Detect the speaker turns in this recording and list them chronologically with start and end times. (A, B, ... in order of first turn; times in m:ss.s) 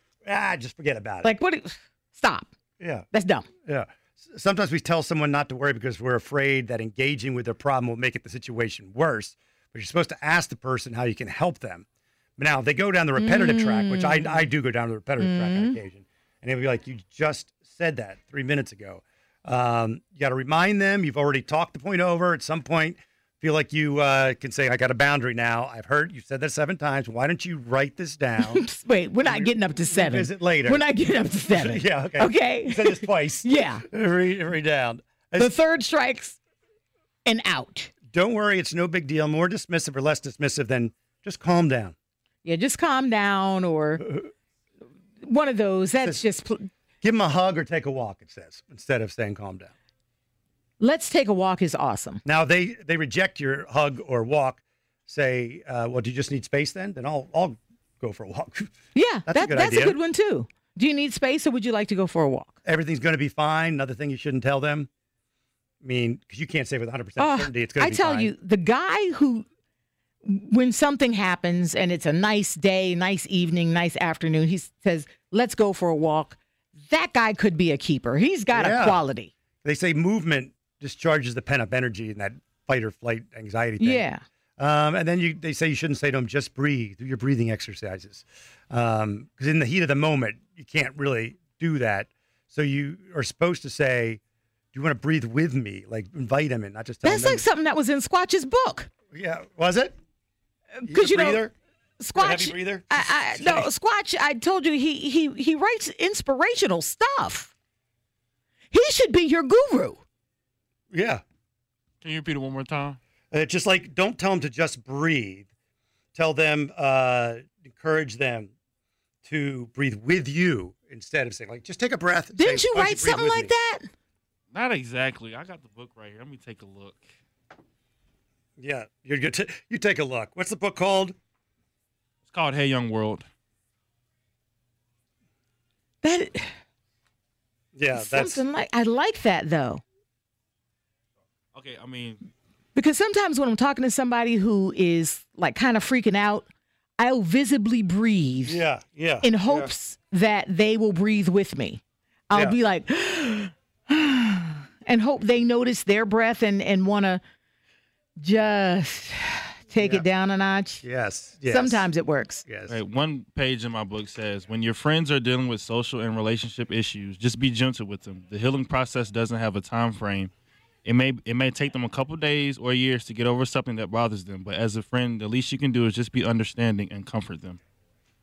0:00.2-0:01.3 A
0:01.2-0:02.5 B
0:02.8-0:03.0 A
0:03.1-0:03.5 B
0:03.7-0:11.8 A
0:12.4-0:28.6 A
0:13.2-0:14.5 B
0:15.2-0:15.8 B
0:28.4-0:33.8 B
0:29.2-0:30.9 A
0:31.5-0:35.6 A
0:35.4-0:36.4 B
0:37.2-0:37.9 B
0:38.1-0:42.0 A
0:42.4-0:44.2 B
0:45.2-0:46.7 B
0:47.0-0:49.7 A
0:50.8-0:52.2 B
0:52.2-0:58.7 A
0:58.9-1:02.5 B
0:59.3-1:00.0 A
1:02.6-1:04.9 A
1:05.8-1:08.3 A
1:07.2-1:09.5 B
1:10.2-1:19.3 B
1:18.5-1:19.0 A
1:19.6-1:24.0 A
1:23.8-1:24.2 B
1:24.6-1:34.2 A
1:34.7-1:37.4 A
1:37.0-1:38.9 B
1:39.1-1:39.9 A
1:40.8-1:41.4 B
1:40.9-1:41.5 A
1:42.0-1:47.5 B
1:42.2-1:43.7 A
1:48.7-1:50.0 B
1:50.9-1:51.2 A
1:52.0-1:53.0 C
1:53.3-1:55.5 A
1:56.2-1:58.5 A
1:59.2-2:03.5 A
2:02.3-2:03.9 B
2:04.5-2:07.0 C
2:08.6-2:11.2 A
2:12.3-2:13.2 C
2:16.0-2:16.5 B
2:17.8-2:18.4 A
2:17.9-2:19.8 B
2:21.5-2:22.2 C
2:22.8-2:26.5 B
2:27.0-2:28.6 B
2:28.5-2:29.7 A
2:29.2-2:37.2 B
2:38.2-2:40.8 B
2:39.8-2:40.0 A
2:40.8-2:41.9 A
2:41.5-2:42.4 B
2:42.5-2:42.8 A
2:42.7-2:50.3 C
2:50.8-2:57.6 C